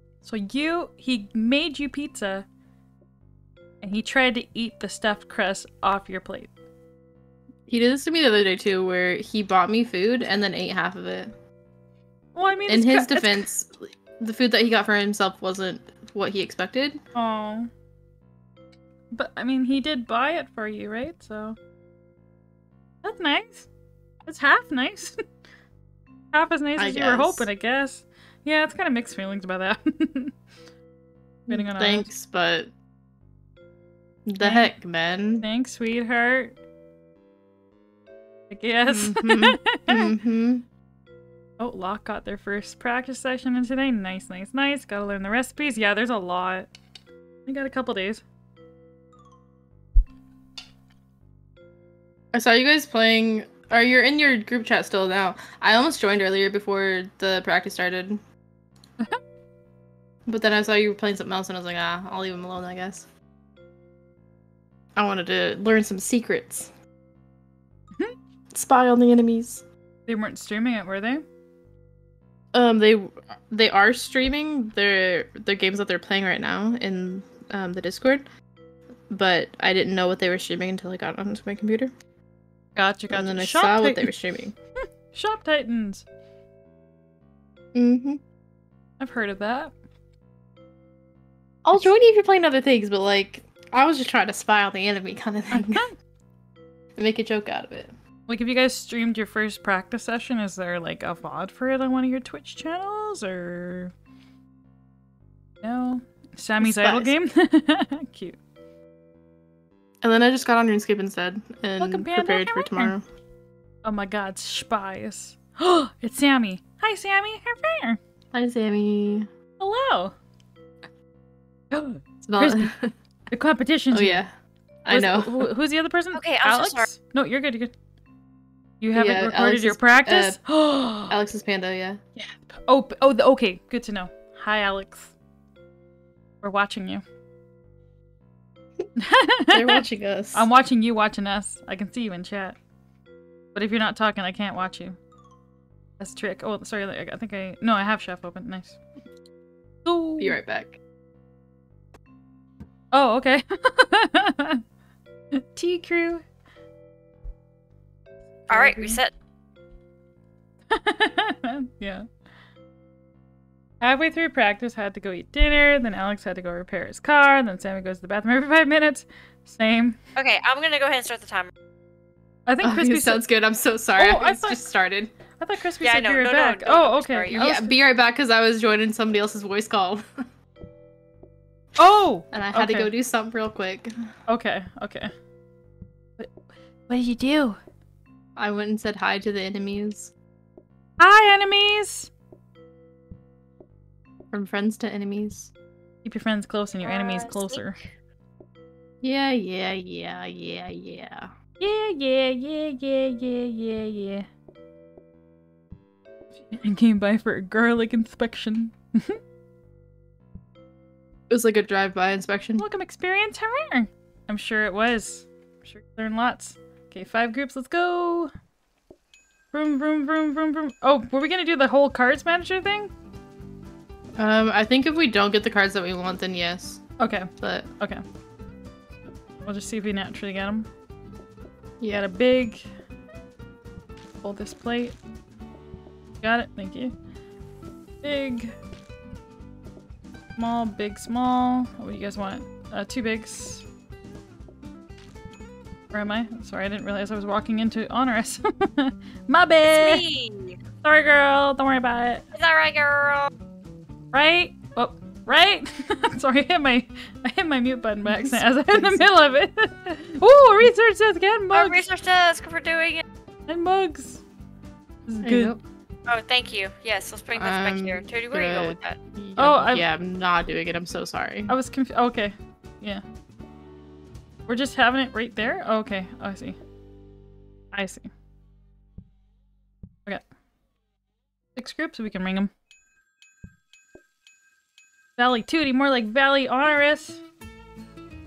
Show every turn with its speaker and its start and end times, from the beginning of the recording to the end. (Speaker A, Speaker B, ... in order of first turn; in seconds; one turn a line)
Speaker A: 0.2-2.5
Speaker A: 3.8-6.5
Speaker B: 7.7-11.3
Speaker A: 12.3-13.4
Speaker B: 12.7-17.0
Speaker A: 17.1-17.7
Speaker A: 19.1-21.6
Speaker A: 23.0-23.7
Speaker A: 24.2-25.2
Speaker A: 26.3-30.4
Speaker B: 26.8-27.5
Speaker B: 31.5-32.7
Speaker A: 31.5-32.1
Speaker B: 34.2-35.5
Speaker A: 34.4-34.7
Speaker A: 35.4-36.5
Speaker A: 38.5-40.1
Speaker B: 38.9-40.6
Speaker A: 41.6-46.7
Speaker A: 47.5-48.2
Speaker B: 52.3-58.2
Speaker B: 60.2-63.1
Speaker B: 65.0-66.7
Speaker B: 68.5-69.6
Speaker A: 70.1-71.2
Speaker B: 72.5-78.3
Speaker B: 79.1-81.9
Speaker A: 82.7-84.1
Speaker B: 83.1-84.5
Speaker A: 85.1-86.0
Speaker B: 87.7-88.2
Speaker A: 89.0-89.7
Speaker B: 91.6-95.9
Speaker A: 95.5-95.9
Speaker B: 97.0-97.9
Speaker A: 98.3-103.9
Speaker A: 105.6-108.4
Speaker B: 106.6-107.1
Speaker B: 110.0-113.0
Speaker A: 111.8-112.9
Speaker A: 113.8-118.0
Speaker B: 118.3-119.3
Speaker A: 119.6-120.1
Speaker A: 121.7-122.7
Speaker B: 122.2-122.9
Speaker A: 123.3-124.2
Speaker B: 123.9-124.3
Speaker B: 124.8-125.5
Speaker A: 124.9-127.7
Speaker C: 126.1-126.9
Speaker A: 128.8-131.2
Speaker B: 128.9-130.4
Speaker B: 131.1-132.0
Speaker A: 132.2-135.1
Speaker A: 136.4-137.0
Speaker A: 138.9-142.6
Speaker B: 139.5-140.5
Speaker A: 143.5-145.0
Speaker A: 146.0-148.8
Speaker A: 149.8-150.4
Speaker B: 150.2-150.8
Speaker A: 152.9-154.6
Speaker A: 155.3-156.2
Speaker A: 158.5-159.0
Speaker C: 158.5-159.1
Speaker A: 160.7-162.1
Speaker A: 163.8-170.0
Speaker C: 170.2-171.5
Speaker A: 172.5-173.2
Speaker B: 172.6-175.1
Speaker A: 174.0-174.6
Speaker A: 175.4-177.7
Speaker C: 175.8-177.5
Speaker B: 177.3-180.0
Speaker A: 181.8-182.9
Speaker B: 182.3-183.9
Speaker A: 184.3-185.1
Speaker A: 186.9-187.6
Speaker B: 188.3-190.1
Speaker A: 191.0-192.1
Speaker B: 194.3-195.5
Speaker A: 196.0-197.8
Speaker C: 196.8-197.6
Speaker B: 199.0-201.3
Speaker A: 201.6-204.3
Speaker A: 206.4-209.2
Speaker B: 211.3-212.7
Speaker A: 212.6-218.3
Speaker A: 219.5-222.9
Speaker B: 224.2-226.8
Speaker A: 227.0-228.0
Speaker B: 227.4-227.7
Speaker A: 229.4-230.7
Speaker A: 231.9-232.7
Speaker A: 234.2-234.9
Speaker A: 236.2-236.9
Speaker A: 238.0-238.5
Speaker A: 240.3-243.7
Speaker A: 245.9-250.0
Speaker C: 249.7-250.6
Speaker A: 250.8-252.2
Speaker C: 252.3-253.3
Speaker A: 254.1-261.8
Speaker B: 258.1-259.0
Speaker C: 261.5-263.0
Speaker A: 263.5-264.2
Speaker A: 265.1-265.6
Speaker B: 265.2-265.6
Speaker C: 266.1-269.0
Speaker B: 267.3-271.5
Speaker A: 269.4-269.8
Speaker A: 271.5-273.0
Speaker A: 274.5-276.6
Speaker A: 277.7-278.1
Speaker A: 281.6-282.5
Speaker A: 285.2-287.2